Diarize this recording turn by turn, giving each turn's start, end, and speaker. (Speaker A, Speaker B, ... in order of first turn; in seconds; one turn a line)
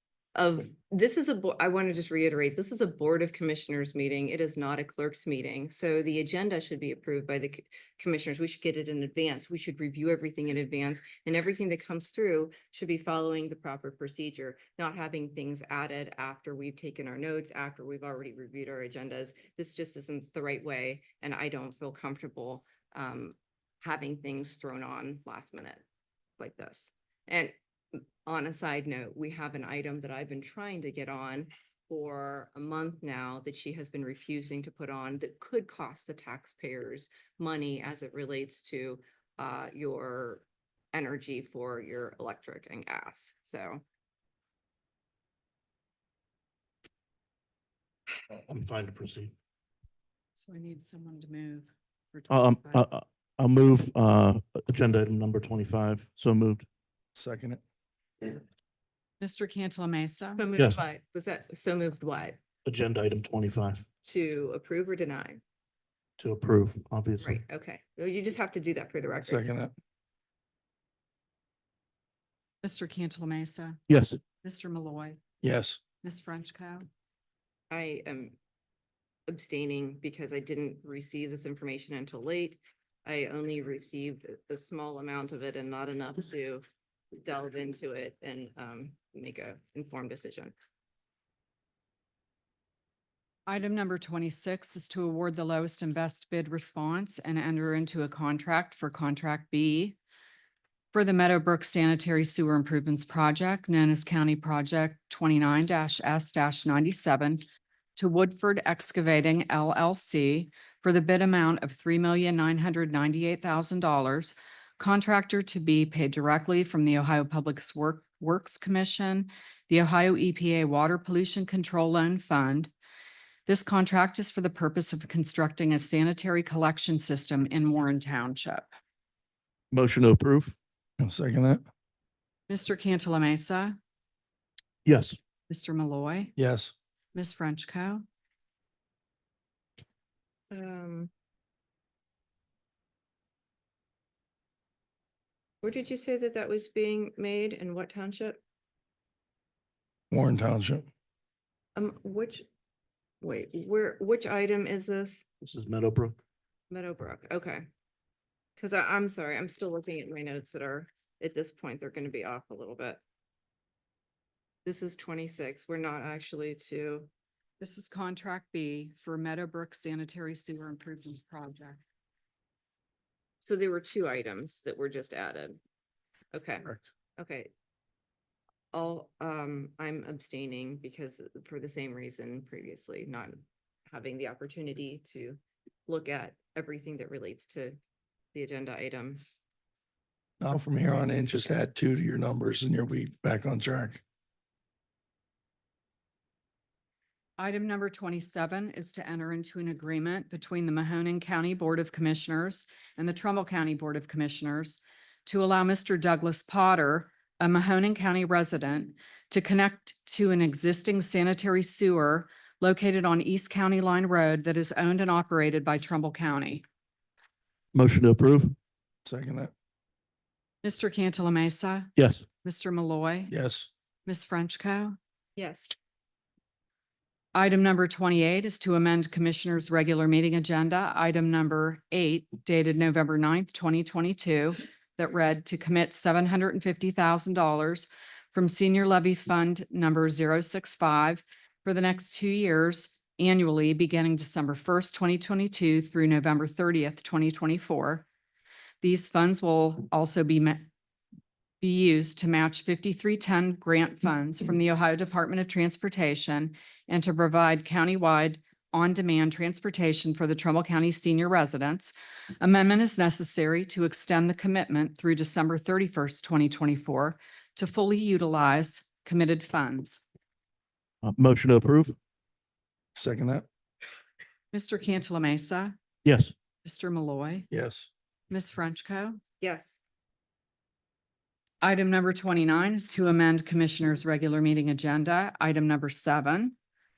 Speaker A: 0.3-25.8
Speaker A: 26.4-43.8
Speaker B: 48.5-49.3
Speaker C: 50.4-52.8
Speaker B: 52.3-56.7
Speaker D: 57.1-57.6
Speaker C: 59.2-60.4
Speaker A: 60.4-62.4
Speaker B: 60.5-60.8
Speaker B: 62.6-63.8
Speaker A: 64.0-65.4
Speaker B: 66.2-67.4
Speaker A: 67.2-69.4
Speaker D: 69.2-69.7
Speaker C: 72.6-73.8
Speaker B: 73.9-74.2
Speaker C: 74.4-75.2
Speaker D: 75.4-75.8
Speaker C: 76.0-76.8
Speaker A: 77.7-78.3
Speaker A: 79.3-86.6
Speaker A: 87.2-90.5
Speaker C: 93.5-100.0
Speaker C: 100.9-107.4
Speaker C: 108.0-122.7
Speaker C: 123.5-128.7
Speaker B: 129.7-130.6
Speaker D: 131.0-131.6
Speaker C: 132.5-133.8
Speaker B: 134.8-135.2
Speaker C: 135.5-136.3
Speaker D: 136.3-136.7
Speaker C: 137.1-138.0
Speaker A: 140.5-141.1
Speaker A: 145.6-148.4
Speaker D: 150.1-150.9
Speaker A: 151.8-152.4
Speaker A: 153.2-155.2
Speaker B: 155.4-156.2
Speaker A: 156.7-157.7
Speaker A: 158.6-163.0
Speaker A: 164.6-167.1
Speaker C: 167.6-171.8
Speaker A: 173.4-175.6
Speaker A: 176.3-177.5
Speaker A: 178.7-187.8
Speaker A: 188.3-189.2
Speaker D: 190.4-194.0
Speaker C: 197.4-216.6
Speaker B: 217.7-218.6
Speaker D: 219.0-219.5
Speaker C: 220.6-223.3
Speaker B: 221.9-222.2
Speaker D: 223.3-223.7
Speaker C: 224.1-225.0
Speaker A: 225.4-225.8
Speaker C: 227.3-248.1
Speaker C: 248.8-250.7
Speaker C: 251.6-270.0
Speaker B: 271.0-271.9
Speaker D: 272.9-273.4
Speaker C: 274.5-275.8
Speaker B: 276.0-276.3
Speaker C: 276.6-277.5
Speaker D: 277.5-277.9
Speaker C: 278.3-279.2
Speaker A: 279.4-279.8
Speaker C: 281.6-286.6